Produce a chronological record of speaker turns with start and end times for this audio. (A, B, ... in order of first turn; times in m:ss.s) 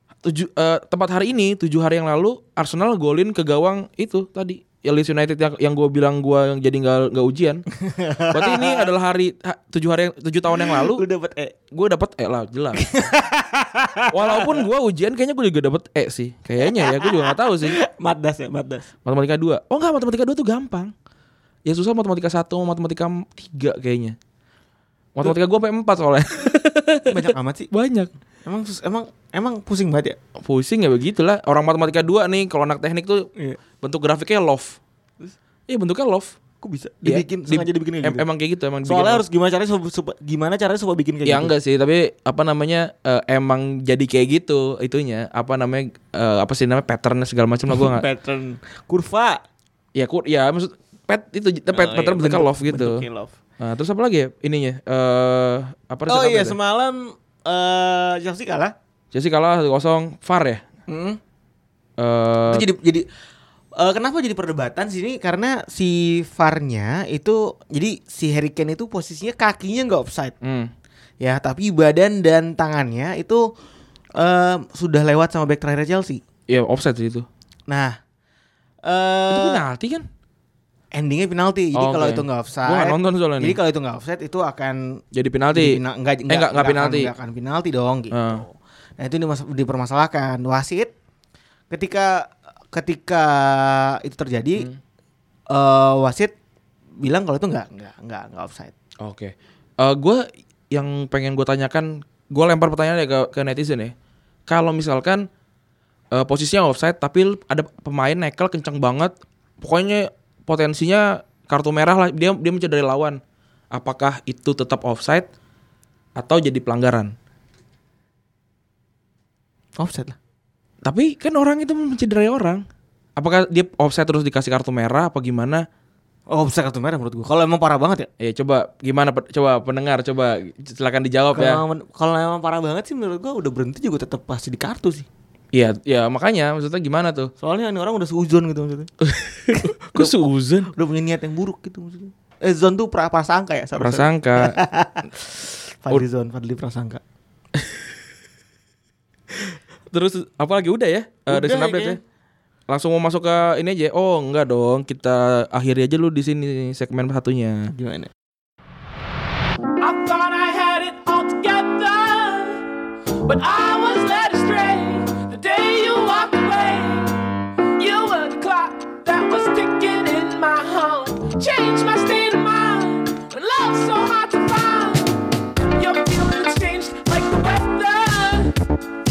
0:00.2-0:07.6 A
0:07.8-0:08.9 B
0:08.3-0:11.0 A
0:10.5-0:11.5 B
0:11.7-0:12.9 A
0:12.8-0:14.6 B
0:14.1-0:17.8 A
0:16.6-0:18.9 B
0:19.0-0:20.9 A
0:21.6-0:24.2 A
0:25.1-0:28.1 A
0:27.1-0:27.7 B
0:28.4-0:30.2 B
0:30.4-0:33.3 A
0:33.8-0:34.8 A
0:35.7-0:36.4 A
0:36.6-0:38.2 B
0:37.0-0:39.2 A
0:38.8-0:41.5 B
0:41.2-0:48.0 A
0:47.7-0:49.4 B
0:49.9-0:53.0 A
0:51.7-0:53.3 B
0:53.6-0:56.6 A
0:56.1-0:58.7 B
0:59.1-1:00.6 A
1:00.9-1:01.2 B
1:02.0-1:02.7 A
1:02.5-1:03.0 B
1:03.8-1:10.3 B
1:10.4-1:10.7 A
1:11.2-1:13.4 B
1:14.2-1:16.2 B
1:16.5-1:17.3 A
1:17.7-1:18.0 B
1:18.8-1:19.6 B
1:19.3-1:20.0 A
1:20.9-1:25.0 B
1:21.7-1:23.6 A
1:25.1-1:27.1 A
1:25.5-1:30.9 B
1:28.1-1:28.4 A
1:31.7-1:34.7 B
1:35.5-1:36.3 B
1:37.0-1:38.7 B
1:39.0-1:43.9 A
1:44.5-1:45.3 A
1:46.1-1:53.2 A
1:53.7-1:55.3 A
1:56.2-1:57.1 A
1:59.8-2:00.2 B
2:00.8-2:02.6 A
2:03.2-2:05.6 A
2:06.3-2:08.1 B
2:08.2-2:11.6 A
2:11.3-2:15.1 B
2:15.5-2:17.3 A
2:17.4-2:18.9 B
2:19.0-2:20.7 A
2:19.5-2:20.1 B
2:20.7-2:25.1 B
2:23.8-2:24.6 A
2:25.8-2:27.0 B
2:29.9-2:32.0 A
2:31.3-2:32.0 B
2:32.7-2:37.7 A
2:37.7-2:38.1 B
2:39.8-2:42.6 C
2:43.2-2:47.2 C
2:47.8-2:55.2 C
2:55.7-2:58.5 C